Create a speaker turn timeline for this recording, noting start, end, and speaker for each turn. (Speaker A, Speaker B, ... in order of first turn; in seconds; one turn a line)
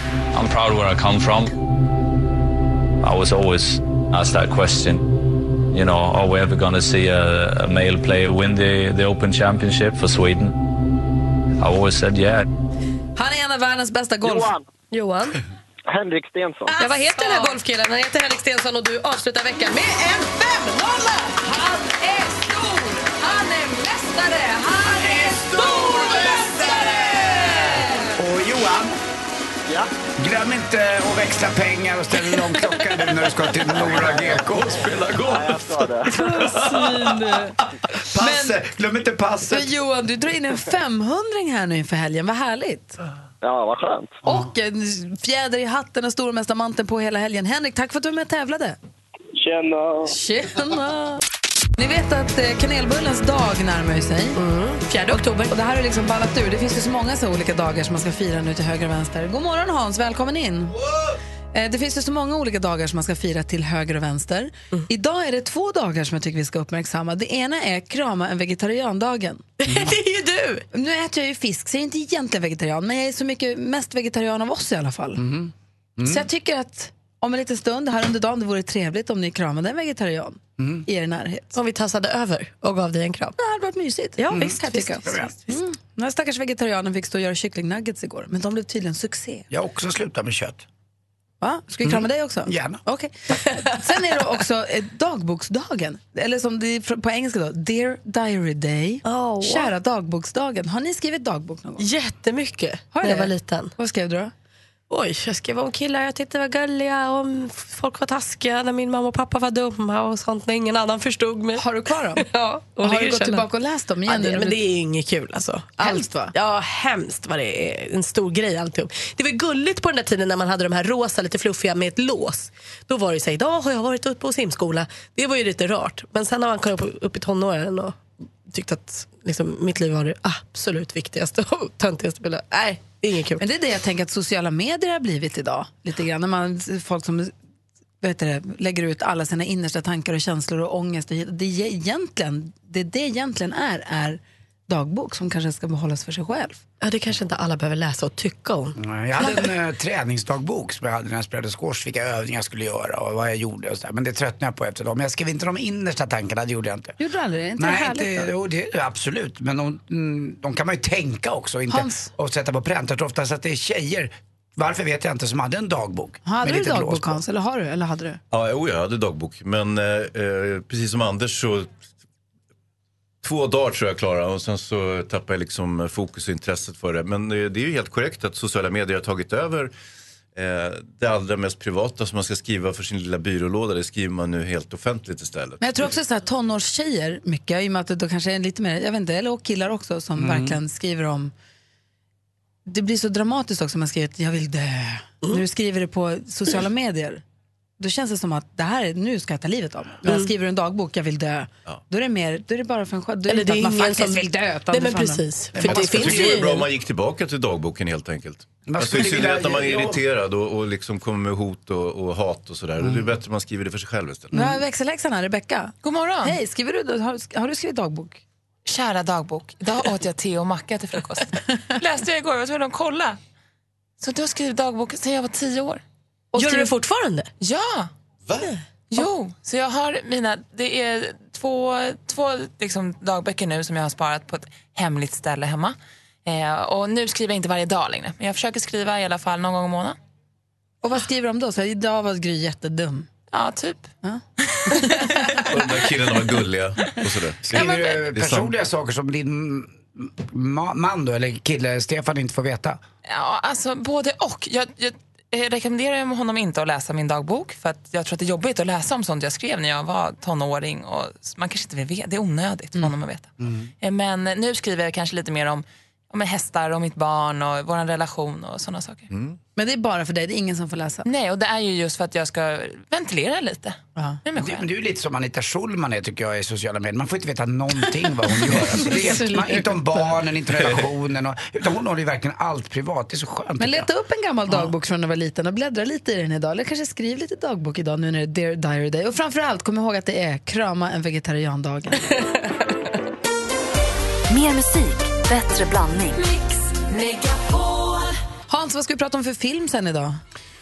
Speaker A: 0.3-1.5
Speaker A: 3.0-5.1
Speaker A: 5.7-10.6
Speaker A: 11.6-12.4
Speaker B: 13.2-14.5
Speaker C: 14.9-15.4
Speaker D: 15.9-16.7
Speaker B: 16.7-17.6
Speaker C: 16.8-21.0
Speaker B: 20.8-28.1
Speaker E: 28.2-28.9
Speaker E: 30.2-35.5
Speaker D: 33.9-34.3
Speaker F: 34.7-35.6
Speaker D: 35.2-36.1
Speaker B: 36.1-37.6
Speaker E: 38.1-39.7
Speaker B: 38.1-38.6
Speaker B: 39.5-43.0
Speaker D: 43.4-44.1
Speaker B: 44.2-48.8
Speaker D: 49.4-50.1
Speaker B: 50.1-51.2
Speaker B: 51.8-54.4
Speaker C: 54.4-55.5
Speaker B: 55.5-60.8
Speaker B: 61.5-69.5
Speaker C: 69.6-70.6
Speaker E: 69.7-70.0
Speaker B: 70.7-75.2
Speaker E: 75.2-76.2
Speaker B: 76.0-81.5
Speaker E: 80.6-80.8
Speaker C: 81.5-83.3
Speaker B: 83.4-89.5
Speaker C: 84.2-85.5
Speaker E: 84.3-85.3
Speaker E: 89.5-90.6
Speaker B: 91.4-101.8
Speaker E: 91.8-92.8
Speaker C: 99.0-99.7
Speaker C: 101.8-103.7
Speaker B: 102.9-104.3
Speaker C: 104.9-113.5
Speaker B: 111.6-112.2
Speaker B: 112.8-114.6
Speaker C: 114.0-133.4
Speaker B: 115.8-116.3
Speaker B: 133.4-137.3
Speaker B: 138.0-146.6
Speaker C: 146.8-148.8
Speaker E: 148.8-156.9
Speaker B: 157.0-158.3
Speaker E: 157.6-167.2
Speaker B: 161.7-162.1
Speaker B: 166.2-168.2
Speaker F: 168.3-171.7
Speaker F: 173.2-179.7
Speaker F: 180.3-185.7
Speaker B: 185.6-191.3
Speaker E: 190.2-190.6
Speaker B: 192.7-197.2
Speaker B: 197.8-205.2
Speaker C: 203.3-206.7
Speaker E: 205.6-206.4
Speaker F: 205.6-214.5
Speaker E: 208.7-210.0
Speaker E: 212.8-213.2
Speaker B: 214.3-218.2
Speaker G: 215.8-216.4
Speaker G: 218.7-223.2
Speaker G: 224.0-225.8
Speaker B: 226.3-226.7
Speaker C: 226.3-227.3
Speaker G: 227.4-227.9
Speaker F: 228.3-228.5
Speaker G: 228.9-240.0
Speaker B: 240.8-243.1
Speaker G: 243.3-243.9
Speaker B: 244.0-245.4
Speaker G: 244.6-244.9
Speaker F: 245.5-248.5
Speaker E: 247.5-252.8
Speaker G: 253.1-263.3
Speaker E: 263.4-263.7
Speaker G: 263.8-269.1
Speaker B: 269.6-271.1
Speaker G: 271.0-274.7
Speaker B: 273.9-274.2
Speaker E: 274.3-283.9
Speaker B: 278.7-279.7
Speaker B: 283.6-292.2
Speaker H: 294.3-296.2
Speaker B: 298.5-300.2